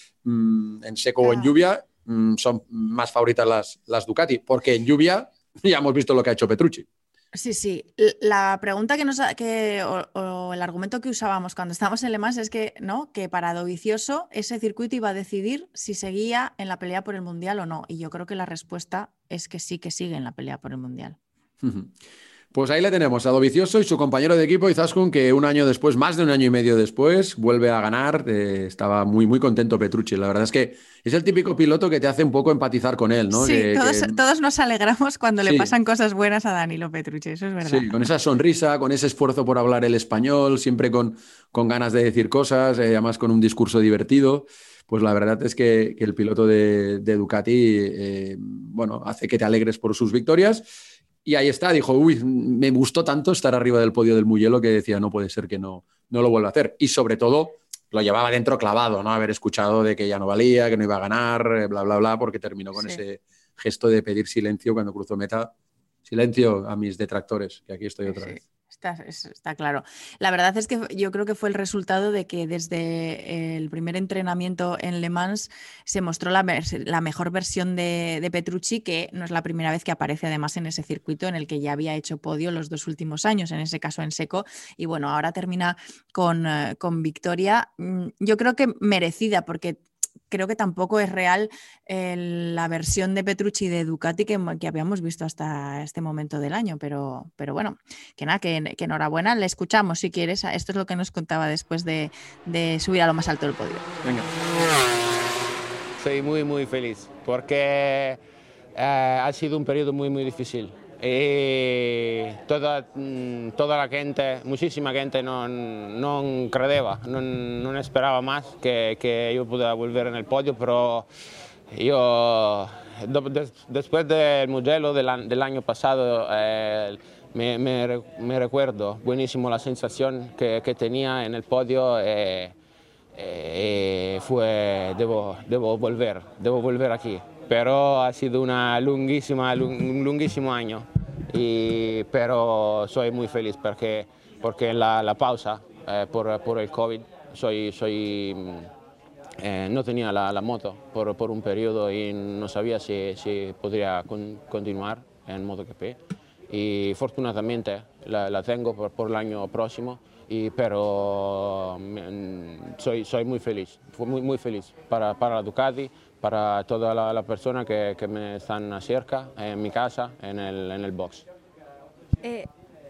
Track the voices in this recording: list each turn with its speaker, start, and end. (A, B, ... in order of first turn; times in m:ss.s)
0:00.2-0:06.9 A
0:01.2-0:01.5 B
0:07.3-0:21.2 B
0:21.6-0:21.9 A
0:22.5-0:34.2 A
0:33.3-0:38.1 B
0:35.4-0:35.7 A
0:37.6-0:50.7 A
0:51.2-1:05.5 A
1:06.1-1:08.4 A
1:08.1-1:44.0 B
1:46.0-1:48.2 C
1:48.8-2:01.1 C
2:01.7-2:12.5 C
2:13.1-2:28.7 C
2:29.4-2:51.3 C
2:52.2-2:52.5 B